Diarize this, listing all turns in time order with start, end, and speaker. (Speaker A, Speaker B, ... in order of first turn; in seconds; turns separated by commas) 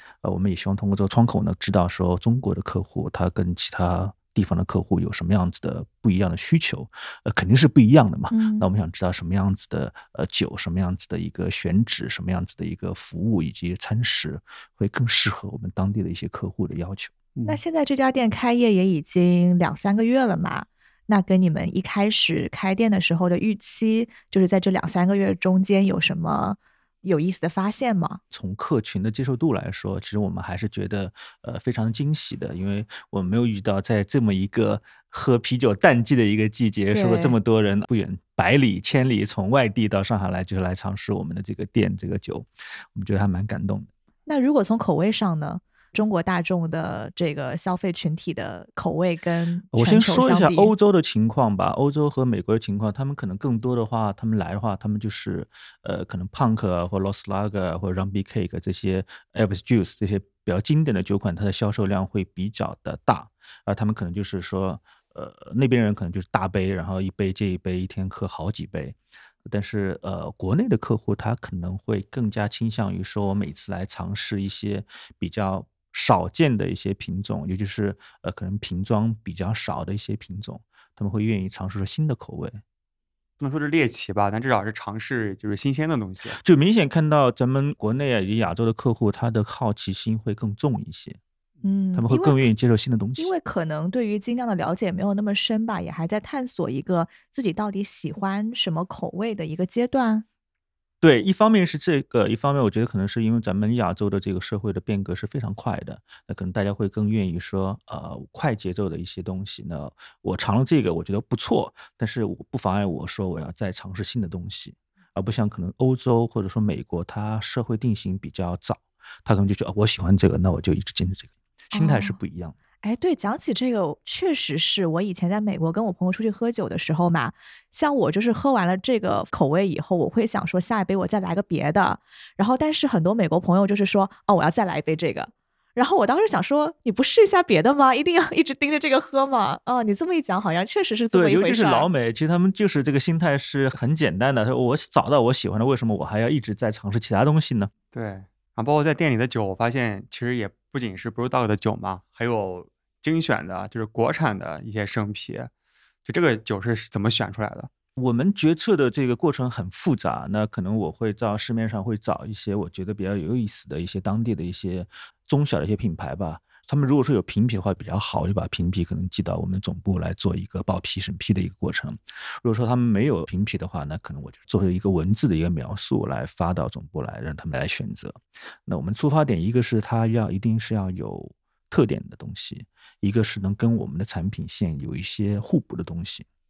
Speaker A: 0.2-17.1, Speaker B: 8.3-8.7, Speaker C: 17.4-17.6, Speaker B: 17.4-28.2, Speaker A: 28.3-43.9, Speaker B: 36.9-37.4, Speaker B: 44.2-50.7, Speaker A: 49.7-82.6, Speaker C: 83.4-86.4, Speaker A: 86.3-91.2, Speaker B: 91.6-92.5, Speaker A: 91.9-93.3, Speaker B: 93.2-100.2, Speaker A: 101.0-122.5, Speaker B: 121.7-122.2, Speaker B: 122.8-141.9, Speaker A: 141.1-147.7, Speaker C: 147.9-155.5, Speaker C: 156.0-157.7, Speaker A: 158.0-186.2